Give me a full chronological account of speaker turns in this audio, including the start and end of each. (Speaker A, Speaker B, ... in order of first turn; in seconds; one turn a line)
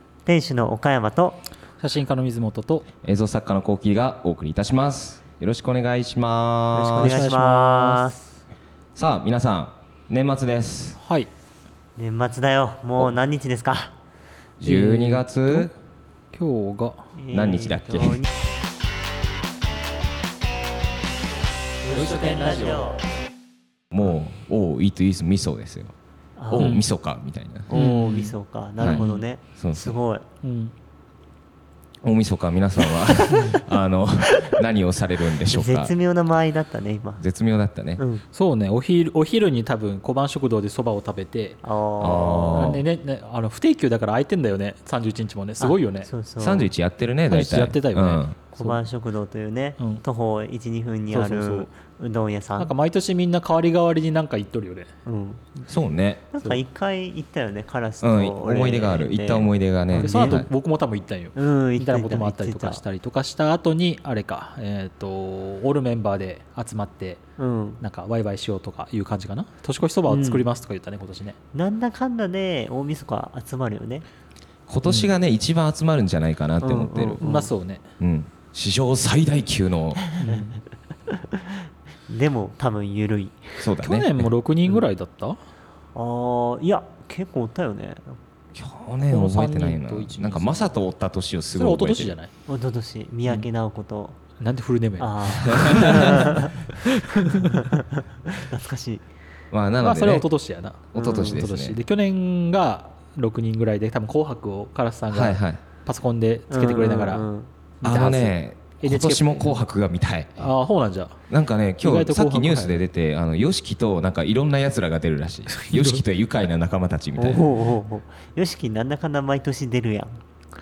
Speaker A: 0.2-1.4
Speaker B: 1.8-2.9
Speaker C: 3.0-7.2
Speaker A: 6.7-8.3
Speaker B: 7.0-8.1
Speaker C: 8.9-11.0
Speaker B: 11.0-11.3
Speaker A: 11.9-13.9
Speaker C: 14.6-15.7
Speaker B: 14.6-15.7
Speaker B: 16.3-17.1
Speaker A: 17.1-18.3
Speaker C: 17.3-18.2
Speaker A: 21.8-23.0
Speaker B: 21.9-22.9
Speaker C: 23.9-25.9
Speaker A: 26.4-26.8
Speaker C: 26.5-27.7
Speaker B: 26.6-26.8
Speaker A: 27.7-30.2
Speaker B: 27.7-29.2
Speaker C: 28.8-29.9
Speaker B: 30.4-30.7
Speaker C: 32.0-35.9
Speaker B: 33.3-33.6
Speaker A: 34.2-34.6
Speaker A: 35.5-37.2
Speaker C: 37.2-38.0
Speaker A: 38.0-38.2
Speaker B: 38.3-41.6
Speaker A: 41.6-42.8
Speaker C: 42.0-42.8
Speaker B: 42.5-46.1
Speaker A: 45.6-46.7
Speaker C: 46.4-48.4
Speaker B: 47.3-48.8
Speaker A: 48.5-52.7
Speaker B: 51.1-51.7
Speaker B: 52.6-54.9
Speaker A: 55.0-55.5
Speaker C: 55.7-56.2
Speaker A: 56.3-60.5
Speaker C: 58.0-60.5
Speaker B: 59.9-67.2
Speaker A: 61.3-62.8
Speaker A: 67.4-67.8
Speaker B: 67.8-71.4
Speaker A: 70.1-70.4
Speaker A: 71.5-74.0
Speaker C: 74.7-77.2
Speaker B: 74.9-75.1
Speaker A: 76.6-77.5
Speaker B: 77.2-77.8
Speaker C: 78.0-80.0
Speaker A: 80.1-80.5
Speaker B: 80.2-80.6
Speaker A: 81.1-83.7
Speaker C: 83.6-84.3
Speaker B: 83.8-85.4
Speaker A: 85.9-88.2
Speaker C: 88.5-92.2
Speaker B: 89.1-90.7
Speaker B: 91.5-92.3
Speaker A: 92.5-94.2
Speaker B: 94.4-97.8
Speaker A: 95.0-99.0
Speaker C: 95.5-96.2
Speaker C: 99.5-100.3
Speaker B: 99.8-107.2
Speaker C: 100.9-101.8
Speaker A: 100.9-101.4
Speaker C: 105.1-105.6
Speaker A: 106.5-107.5
Speaker B: 107.8-109.6
Speaker C: 107.8-110.4
Speaker B: 110.4-111.2
Speaker C: 111.3-117.5
Speaker B: 111.8-112.8
Speaker B: 115.5-116.0
Speaker A: 117.2-120.2